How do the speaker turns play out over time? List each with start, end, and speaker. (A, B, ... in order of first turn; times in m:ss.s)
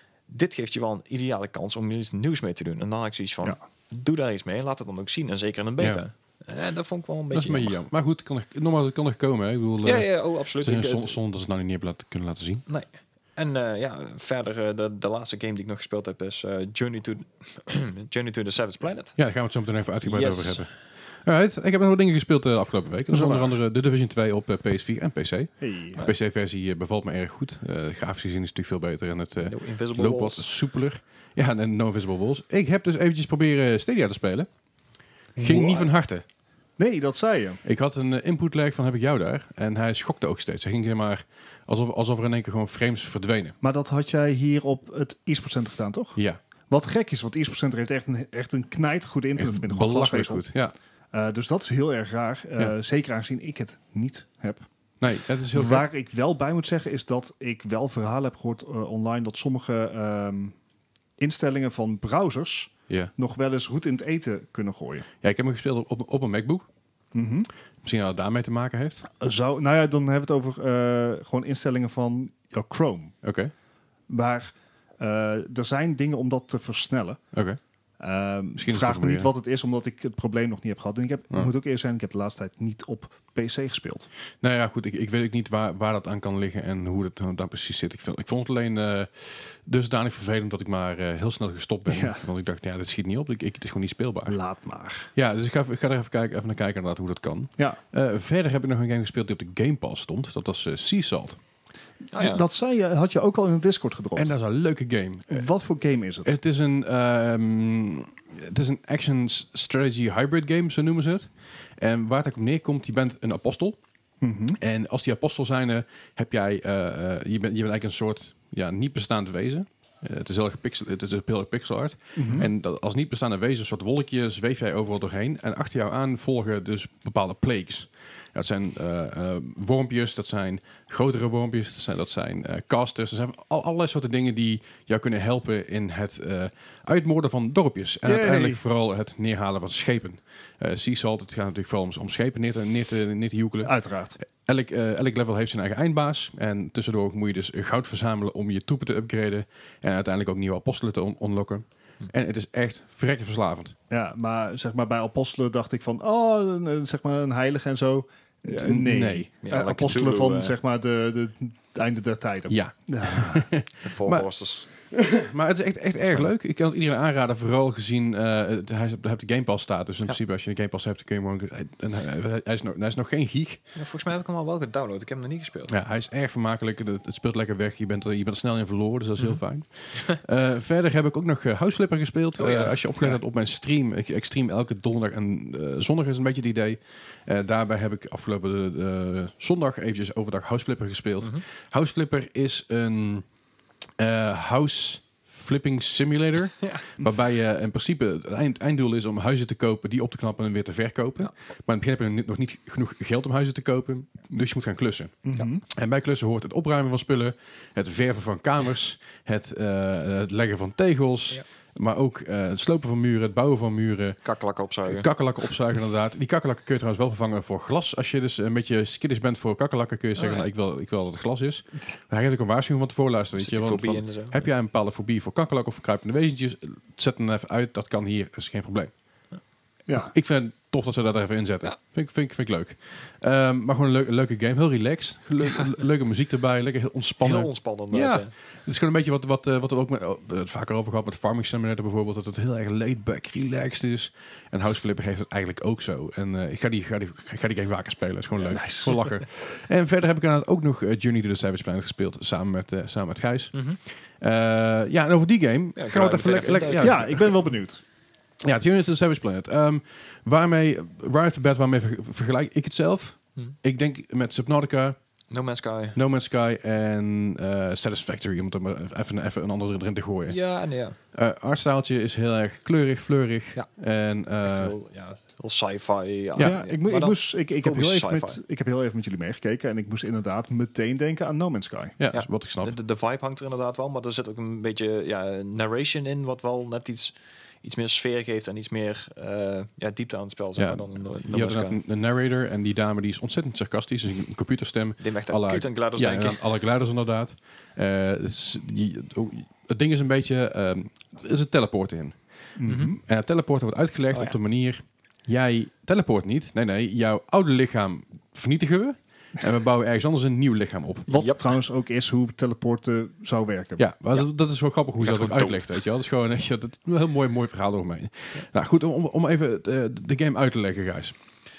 0:00.3-0:07.8 A
0:07.3-0:12.6 B
0:09.8-0:11.2 A
0:12.7-0:19.2 A
0:19.2-0:20.7 B
0:20.0-0:20.6 A
0:21.2-0:34.5 B
0:23.1-0:23.5 C
0:25.6-0:26.0 C
0:29.4-0:30.5 A
0:35.4-0:36.2 B
0:35.4-0:35.7 C
0:35.5-0:35.8 A
0:36.8-0:37.6 C
0:37.6-0:43.6 B
0:43.6-0:46.2 C
0:46.7-0:50.5 C
0:49.4-0:50.7 B
0:51.1-0:54.6 C
0:55.0-0:55.9 B
0:55.5-1:00.6 C
1:01.2-1:05.1 C
1:05.2-1:06.7 B
1:07.1-1:07.5 C
1:07.8-1:09.1 B
1:09.2-1:13.1 C
1:13.2-1:13.5 B
1:14.1-1:17.2 C
1:17.3-1:17.6 B
1:18.0-1:24.1 C
1:18.6-1:19.3 B
1:24.4-1:34.4 B
1:31.9-1:32.2 C
1:34.3-1:35.1 C
1:35.1-1:41.4 B
1:42.1-1:44.3 C
1:42.1-1:42.4 A
1:44.2-1:45.5 B
1:45.3-1:46.3 C
1:46.2-1:53.8 B
1:54.2-1:54.6 C
1:54.6-2:33.7 B
2:02.2-2:02.5 C
2:18.0-2:18.6 C
2:23.6-2:24.2 C
2:33.9-2:43.5 C
2:38.5-2:39.3 B
2:39.4-2:40.6 A
2:42.5-2:44.3 B
2:43.8-2:44.9 A
2:44.9-2:53.6 B
2:53.8-2:55.7 A
2:55.7-3:13.2 B
3:02.4-3:03.2 A
3:14.0-3:34.2 B
3:25.2-3:25.6 C
3:34.2-3:35.1 A
3:34.9-3:48.9 B
3:40.2-3:40.5 A
3:43.4-3:44.5 A
3:49.9-3:50.1 C
3:50.0-4:17.3 B
3:57.2-3:58.3 A
4:08.5-4:09.0 C
4:13.5-4:13.8 A
4:15.8-4:17.3 A
4:16.8-4:17.8 C
4:18.4-4:25.0 B
4:25.3-4:26.0 A
4:26.0-4:30.4 B
4:30.3-4:31.0 A
4:31.1-4:34.7 B
4:34.4-4:38.4 A
4:36.4-4:42.0 C
4:42.0-4:42.7 B
4:42.1-4:51.8 A
4:50.6-5:02.2 B
4:55.0-4:56.4 A
5:02.6-5:03.0 C
5:02.7-5:03.0 A
5:03.0-5:11.1 B
5:11.1-5:11.4 A
5:11.1-5:13.8 C
5:13.8-5:21.2 B
5:15.0-5:15.8 A